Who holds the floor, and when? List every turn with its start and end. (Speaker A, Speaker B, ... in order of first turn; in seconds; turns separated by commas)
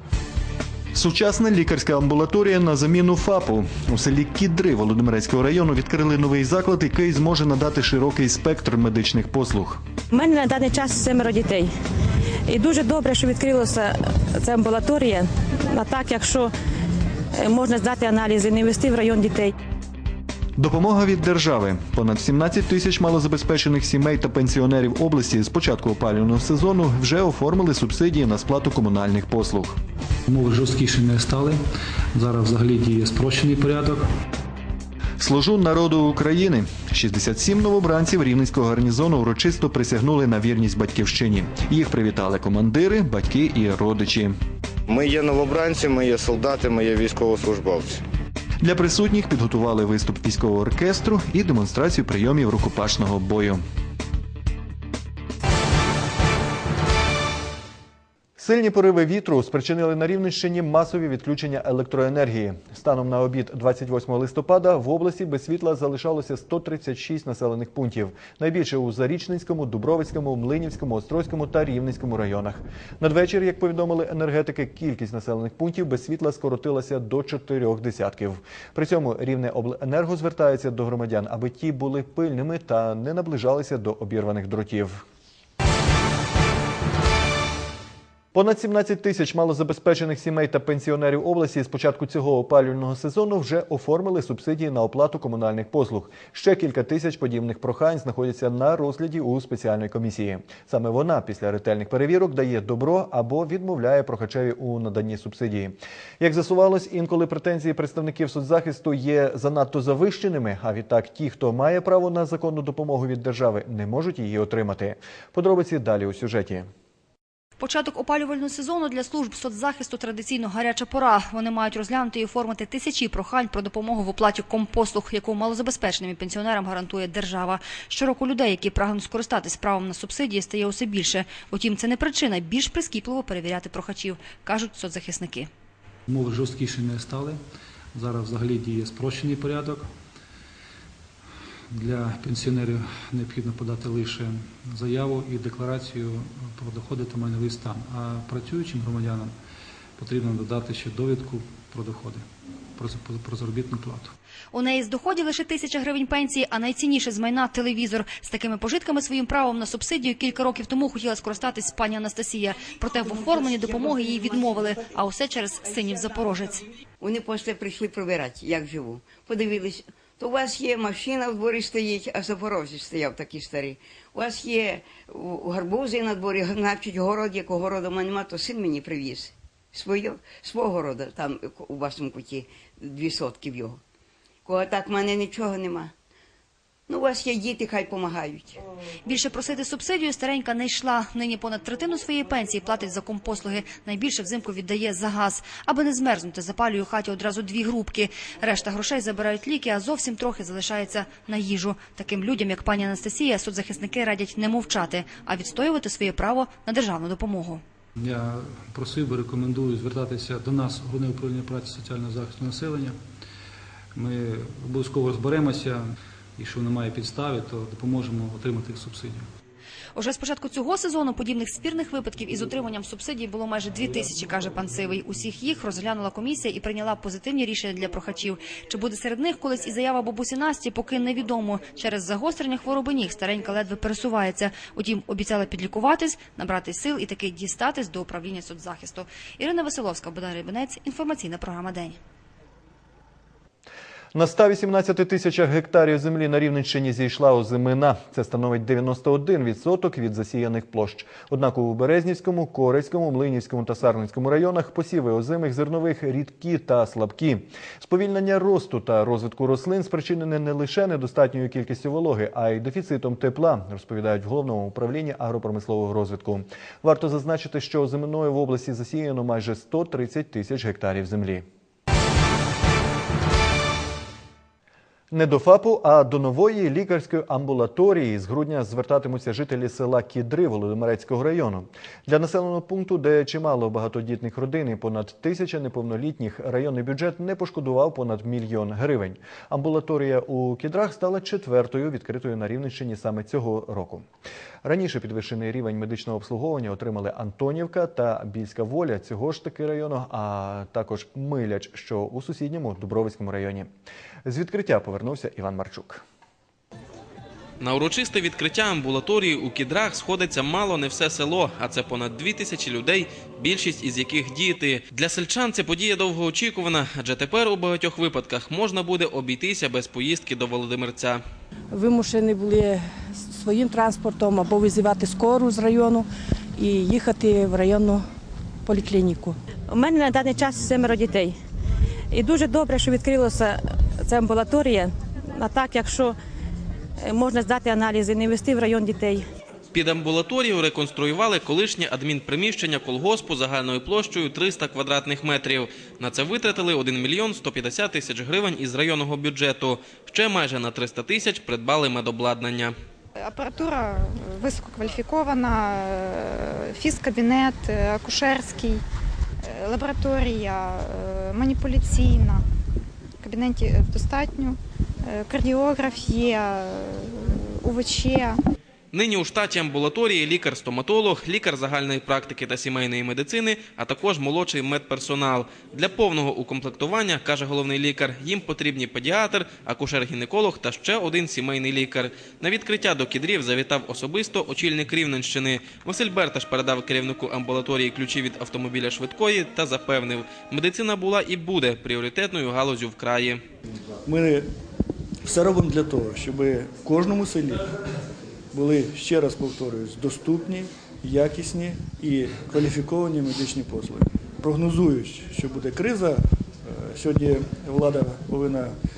Speaker A: 0.9-9.8, Speaker B: 10.1-11.7, Speaker B: 12.5-16.5, Speaker B: 17.4-19.6, Speaker A: 20.6-29.8, Speaker C: 30.3-31.6, Speaker C: 32.1-34.0, Speaker A: 35.2-44.3, Speaker D: 44.9-48.0, Speaker A: 48.6-53.6, Speaker A: 58.4-85.0, Speaker A: 88.3-116.7, Speaker E: 117.6-135.5, Speaker C: 136.1-137.4, Speaker C: 137.9-139.9, Speaker C: 141.7-149.3, Speaker C: 150.0-152.2, Speaker C: 152.8-154.1, Speaker E: 154.5-166.6, Speaker F: 163.6-164.7, Speaker F: 167.1-183.8, Speaker D: 169.0-169.6, Speaker F: 184.5-185.9, Speaker F: 186.9-188.6, Speaker E: 189.1-207.6, Speaker C: 208.0-213.0, Speaker C: 214.0-215.9, Speaker C: 216.4-219.3, Speaker E: 220.0-242.0, Speaker A: 244.1-271.4, Speaker A: 275.1-294.1, Speaker A: 294.6-303.7, Speaker A: 304.3-306.0, Speaker G: 307.6-321.2, Speaker H: 321.7-328.1, Speaker H: 328.6-329.4, Speaker B: 329.7-331.4, Speaker B: 332.1-336.2, Speaker B: 337.0-339.2, Speaker G: 339.7-352.7, Speaker I: 353.2-358.8, Speaker I: 359.4-362.4, Speaker I: 363.2-368.4, Speaker G: 368.9-393.4, Speaker J: 395.3-397.6, Speaker J: 398.6-406.2, Speaker J: 406.9-408.7